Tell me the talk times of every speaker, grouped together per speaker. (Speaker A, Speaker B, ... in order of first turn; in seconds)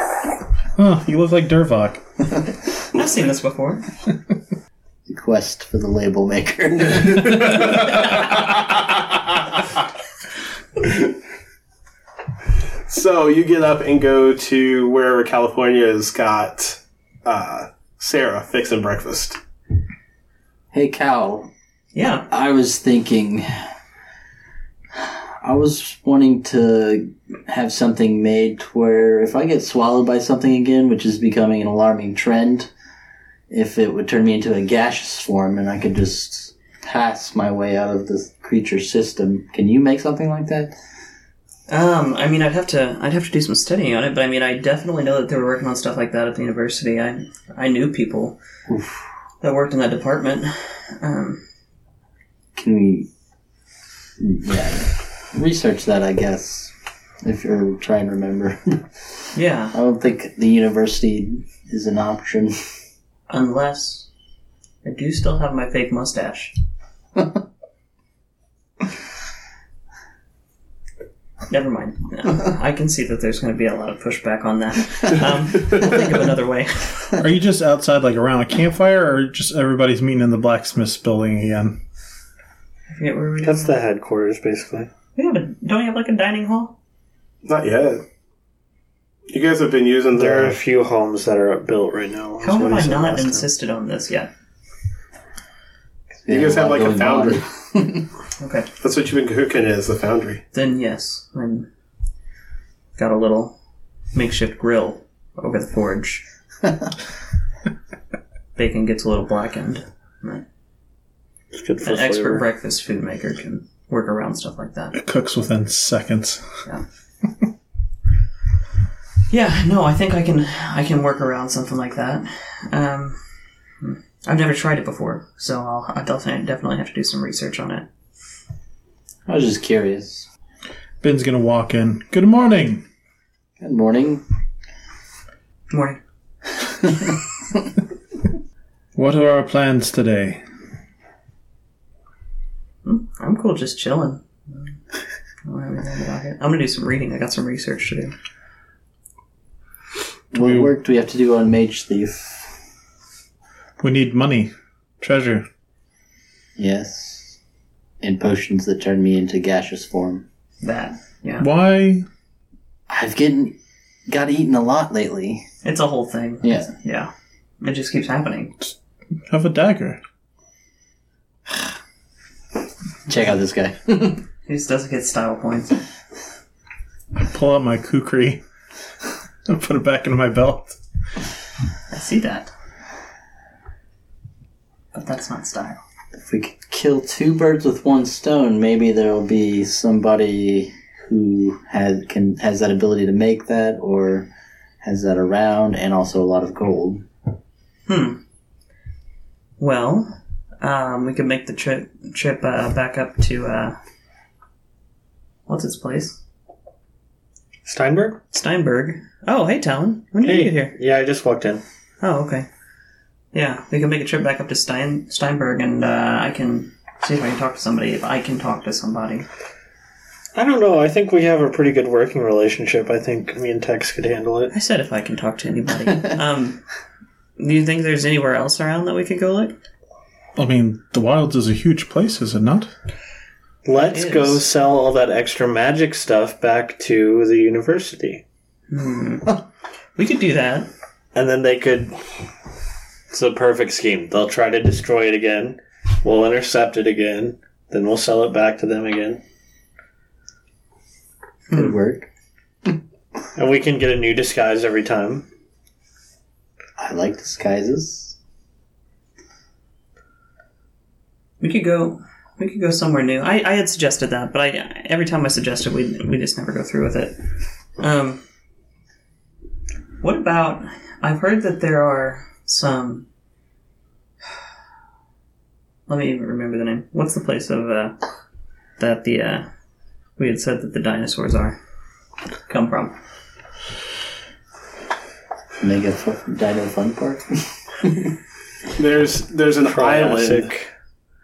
Speaker A: 0.8-2.0, 77.2-81.8, 115.0-116.4, 131.0-132.8, 138.9-140.4, 150.3-150.7, 153.8-155.4, 161.4-162.0, 169.3-170.0, 177.2-178.4, 179.4-180.8, 230.4-232.7
Speaker B: 2.9-3.9, 21.9-22.3, 41.7-48.4, 49.4-51.4, 59.3-59.8, 63.3-64.1, 64.8-66.5, 71.5-77.1, 82.9-83.8, 85.2-86.8, 92.4-94.3, 98.4-98.7, 100.5-101.7, 103.0-103.6, 104.1-106.2, 108.5-110.4, 111.8-115.0, 119.3-123.2, 123.8-127.9, 135.7-136.0, 142.8-144.7, 145.4-148.1, 160.6-161.5, 165.6-168.6, 174.5-175.8, 181.9-182.5, 184.9-185.8, 197.9-198.2, 199.6-203.8, 205.5-206.2, 208.3-210.7, 212.0-212.5, 213.3-219.2, 224.5-226.6, 227.4-229.6, 233.8-234.4, 238.7-239.4, 240.0-240.7, 251.5-251.8, 261.4-267.2, 267.8-268.2, 270.0-273.1, 275.9-278.0, 278.8-279.5, 280.2-281.6, 282.5-282.9
Speaker C: 5.1-7.7, 20.7-21.5, 22.3-23.5, 25.0-32.7, 33.5-40.7, 48.7-49.0, 52.5-53.1, 54.2-58.8, 59.7-62.6, 96.2-98.1, 129.2-130.3, 133.6-134.2, 150.3-152.6, 156.6-157.4, 158.0-160.2, 162.9-163.6, 164.1-165.4, 166.4-166.7, 173.1-174.2, 186.1-194.3, 194.8-197.1, 251.5-252.1, 256.8-258.2, 285.6-287.2, 287.8-288.1
Speaker D: 7.2-8.2, 12.9-19.4, 87.4-88.0, 89.3-90.6, 96.3-97.4, 98.8-100.4, 288.8-290.5
Speaker E: 83.4-84.9, 90.1-93.5, 111.5-112.5, 207.7-208.2, 210.2-211.6, 220.3-224.5, 233.6-238.2, 241.1-241.9, 243.1-249.2, 253.3-255.2, 289.6-290.7